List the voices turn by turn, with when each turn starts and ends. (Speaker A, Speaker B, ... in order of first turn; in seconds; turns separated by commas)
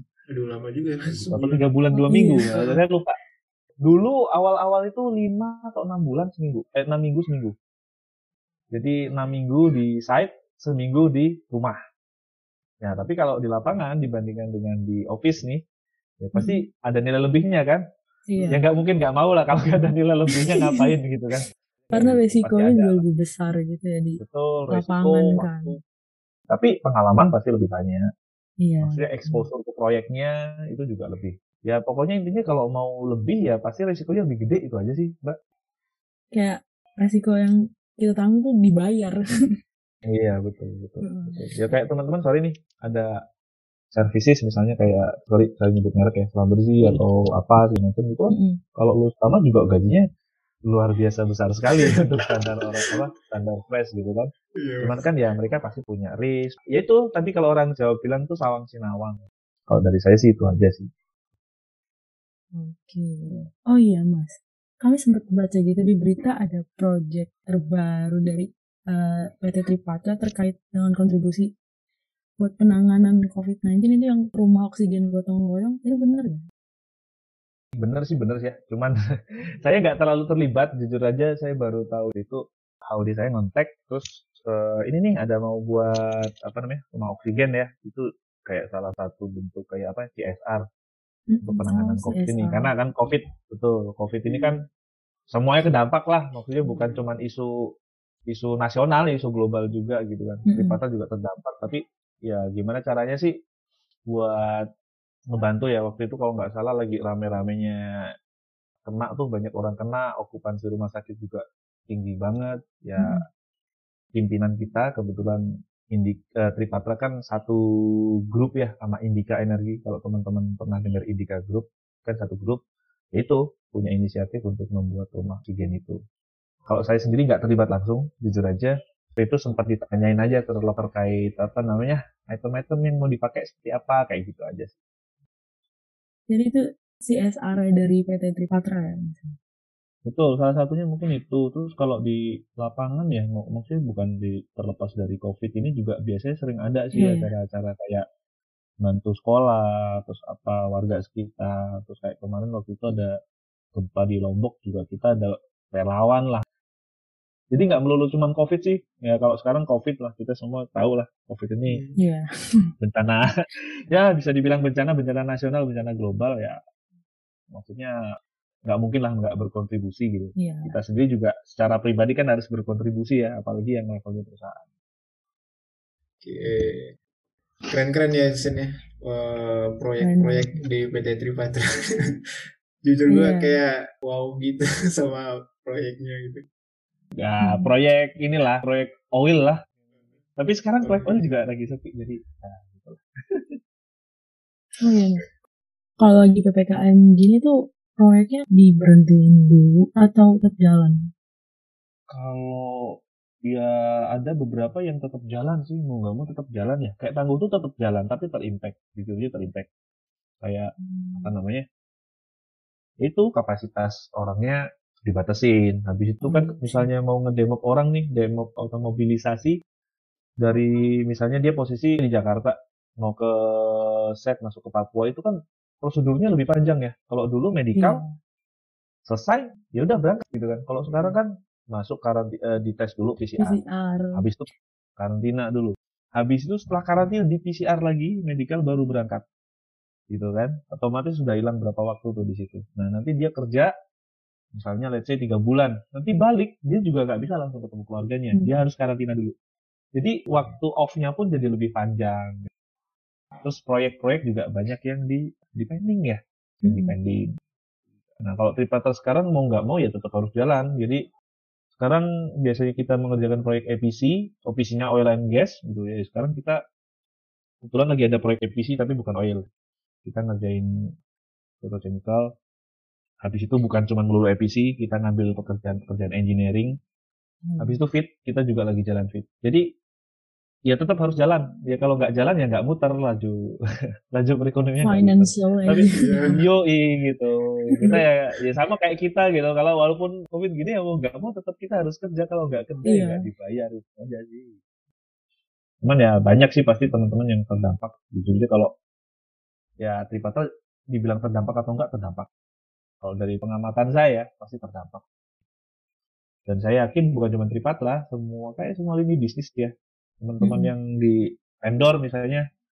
Speaker A: 0.3-1.6, Speaker B: 1.1-3.1, Speaker C: 1.9-2.6, Speaker B: 3.8-7.5, Speaker B: 8.7-11.8, Speaker B: 12.8-15.6, Speaker B: 16.2-17.8, Speaker C: 16.4-16.6, Speaker C: 18.3-18.6, Speaker B: 18.5-23.0, Speaker C: 20.5-20.9, Speaker C: 21.9-24.2, Speaker B: 24.2-25.8, Speaker C: 24.7-25.8, Speaker B: 26.5-28.0, Speaker C: 28.6-29.5, Speaker B: 28.8-35.4, Speaker C: 36.3-39.2, Speaker B: 40.1-43.1, Speaker C: 41.0-41.5, Speaker B: 43.9-50.0, Speaker C: 48.3-48.6, Speaker B: 50.7-60.9, Speaker A: 51.7-52.2, Speaker A: 54.6-55.1, Speaker C: 62.5-71.5, Speaker C: 72.4-76.4, Speaker B: 77.8-78.9, Speaker B: 79.6-90.6, Speaker C: 91.3-92.7, Speaker B: 91.4-94.6, Speaker A: 94.3-94.5, Speaker B: 95.3-97.5, Speaker B: 98.3-103.3, Speaker C: 100.5-100.8, Speaker B: 104.1-104.7, Speaker B: 105.3-107.8, Speaker B: 108.8-113.2, Speaker B: 114.1-122.6, Speaker B: 123.2-126.0, Speaker B: 126.7-134.7, Speaker C: 136.3-139.4, Speaker B: 140.1-148.0, Speaker C: 146.9-147.3, Speaker B: 148.8-153.2, Speaker B: 153.7-156.4, Speaker B: 157.5-161.8, Speaker A: 161.7-162.0, Speaker C: 162.0-162.3, Speaker B: 162.8-166.6, Speaker B: 167.5-167.9, Speaker B: 168.7-174.6, Speaker C: 170.4-170.8, Speaker A: 176.2-176.9, Speaker A: 177.7-181.7, Speaker C: 180.0-180.6, Speaker A: 182.8-186.4, Speaker C: 183.1-183.6, Speaker B: 187.2-189.6, Speaker C: 187.4-187.7, Speaker B: 190.4-193.6, Speaker A: 190.8-191.2, Speaker C: 194.8-195.3, Speaker C: 196.0-200.9, Speaker B: 202.1-209.7, Speaker B: 210.4-211.6, Speaker C: 210.8-211.3, Speaker B: 213.0-219.6, Speaker C: 216.2-216.9, Speaker B: 220.4-228.0, Speaker C: 227.8-228.2, Speaker B: 229.1-233.6, Speaker A: 230.9-231.2, Speaker C: 233.4-234.2, Speaker B: 234.1-234.5, Speaker B: 235.0-239.2, Speaker B: 240.1-243.7, Speaker B: 244.5-249.3, Speaker B: 249.9-252.4, Speaker B: 253.4-257.2, Speaker C: 256.6-256.9, Speaker B: 258.2-261.0, Speaker B: 261.8-266.6, Speaker B: 267.6-269.5, Speaker B: 270.1-270.7, Speaker B: 271.6-272.2, Speaker B: 273.2-276.7, Speaker C: 277.4-277.8, Speaker B: 277.6-279.6, Speaker B: 280.7-283.4, Speaker B: 284.1-294.6, Speaker C: 284.8-286.3, Speaker A: 286.0-286.4, Speaker C: 292.9-293.2, Speaker B: 295.8-298.7, Speaker B: 299.8-300.4, Speaker B: 300.9-302.3, Speaker B: 303.0-305.0, Speaker B: 306.5-312.4, Speaker C: 310.4-310.7